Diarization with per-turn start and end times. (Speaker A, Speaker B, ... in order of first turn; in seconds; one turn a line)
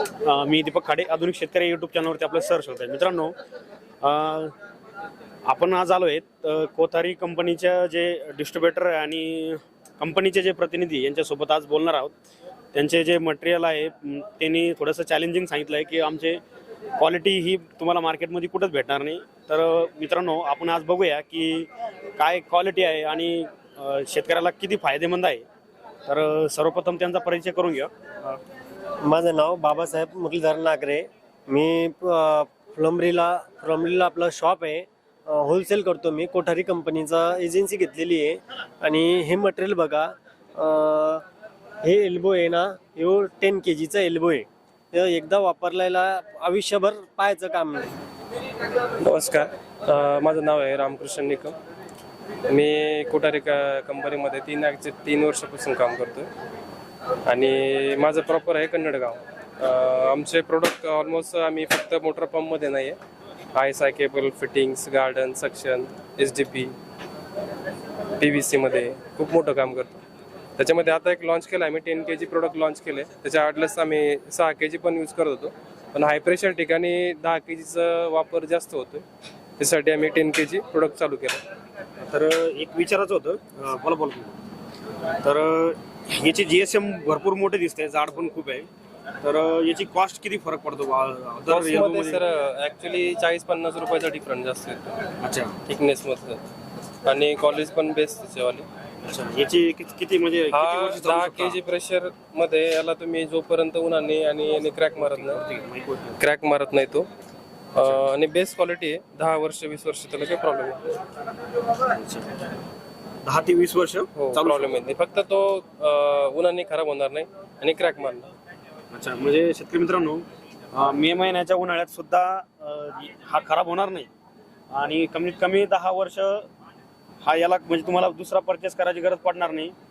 Speaker A: 0.2-3.3
Speaker A: 4.0-4.5
Speaker A: 5.5-12.1
Speaker A: 12.7-16.4
Speaker A: 17.0-25.4
Speaker A: 26.1-27.9
Speaker B: 29.0-41.2
Speaker B: 41.8-47.9
Speaker C: 49.0-51.5
Speaker C: 52.5-56.3
Speaker C: 57.2-63.0
Speaker C: 63.5-66.7
Speaker C: 68.2-70.0
Speaker C: 70.6-79.0
Speaker C: 79.6-81.4
Speaker A: 82.0-84.4
Speaker A: 85.2-88.7
Speaker A: 89.2-92.2
Speaker C: 91.4-95.1
Speaker A: 95.2-95.5
Speaker C: 95.6-96.4
Speaker C: 97.0-98.7
Speaker A: 99.0-101.6
Speaker C: 100.5-105.4
Speaker A: 105.0-106.2
Speaker C: 106.2-107.1
Speaker C: 107.7-110.9
Speaker A: 111.7-112.4
Speaker A: 113.2-114.8
Speaker C: 114.2-118.3
Speaker A: 118.9-124.1
Speaker A: 124.7-126.5
Speaker A: 127.2-129.7